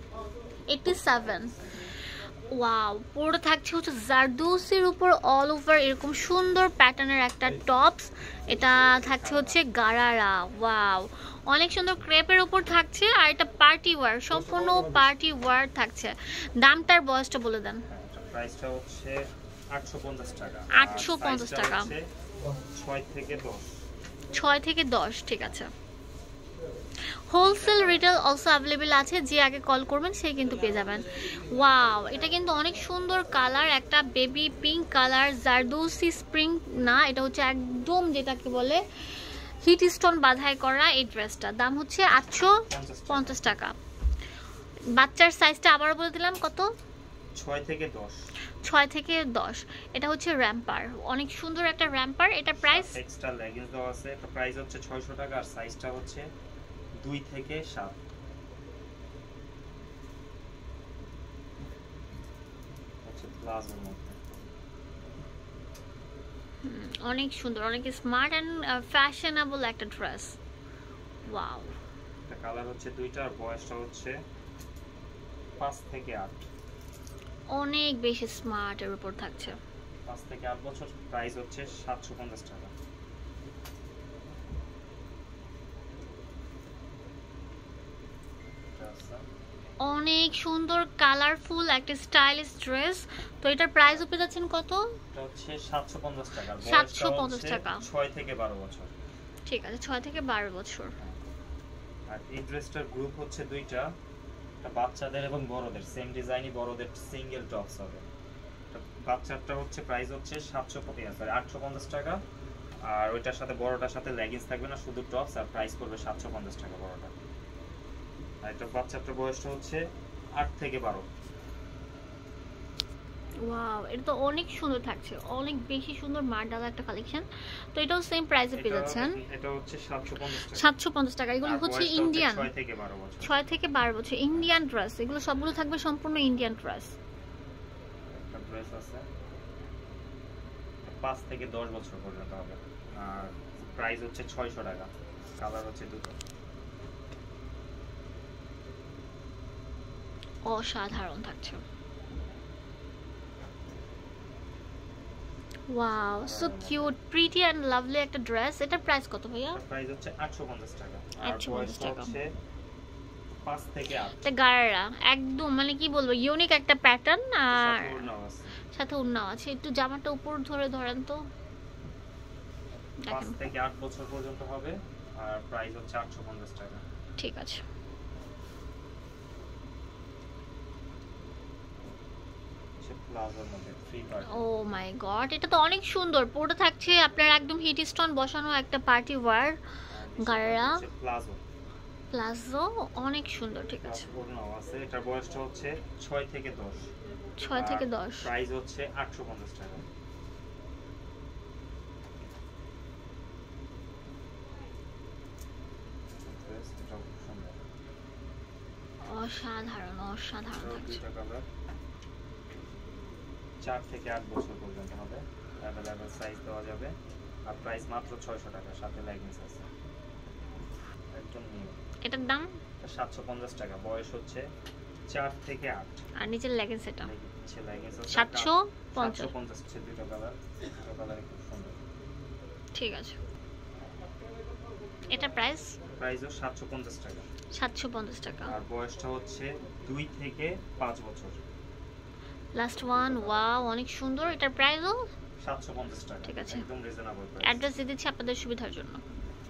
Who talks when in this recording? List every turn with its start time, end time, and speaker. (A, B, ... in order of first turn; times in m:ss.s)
0:00.7-0:01.5 A
0:02.5-0:17.9 A
0:08.4-0:09.6 B
0:17.9-0:22.1 B
0:20.7-0:21.9 A
0:22.6-0:23.8 B
0:24.3-0:25.7 A
0:27.3-0:43.8 A
0:27.4-0:28.2 B
0:32.1-0:32.4 B
0:42.7-0:43.4 B
0:44.9-0:46.7 A
0:47.4-0:48.2 B
0:48.6-0:53.0 A
0:52.6-0:56.3 B
0:57.0-0:58.0 B
1:03.0-1:04.2 B
1:06.6-1:10.4 A
1:11.3-1:11.7 A
1:12.3-1:14.1 B
1:15.6-1:16.5 B
1:17.5-1:19.6 A
1:20.1-1:22.7 B
1:28.7-1:29.2 B
1:29.8-1:35.0 A
1:35.1-1:38.9 B
1:36.6-1:37.9 A
1:39.5-1:40.9 A
1:42.1-1:43.9 B
1:44.6-1:48.1 B
1:48.7-1:52.2 B
1:52.9-1:57.1 B
1:58.4-1:59.8 B
2:00.4-2:01.1 B
2:03.4-2:09.2 A
2:08.6-2:10.7 B
2:10.3-2:12.5 A
2:11.4-2:13.5 B
2:13.2-2:17.0 A
2:14.3-2:14.6 B
2:18.1-2:19.1 B
2:20.9-2:26.2 B
2:30.4-2:31.6 A
2:35.7-2:39.6 A
2:36.2-2:36.9 B
2:39.5-2:42.3 B
2:41.2-2:42.2 A
2:43.4-2:44.2 B
2:44.1-2:48.1 A
2:47.5-2:48.6 B
2:48.7-2:51.2 A
2:52.8-2:56.8 B
2:53.0-2:53.4 A
2:57.2-2:57.6 A
3:02.8-3:04.5 B
3:04.3-3:09.6 A
3:09.9-3:11.4 B
3:10.2-3:10.8 A
3:12.1-3:14.1 A
3:13.8-3:16.9 B
3:17.4-3:18.3 A
3:17.5-3:19.8 B
3:26.2-3:27.6 B
3:29.0-3:31.0 A
3:30.5-3:31.5 B
3:33.6-3:36.9 B
3:37.5-3:39.7 B
3:41.1-3:41.8 B
3:42.0-3:42.6 A
3:42.8-3:44.5 B
3:45.1-3:46.0 B
3:46.2-3:47.1 A
3:47.0-3:51.8 B
3:48.1-3:49.3 A
3:52.8-3:53.2 A
3:55.1-3:55.8 A
3:56.0-3:57.3 B
3:57.5-3:58.5 A
3:58.5-4:01.4 B
4:02.6-4:05.1 A
4:02.8-4:03.7 B
4:05.4-4:07.6 B
4:06.2-4:06.6 A
4:07.4-4:09.0 A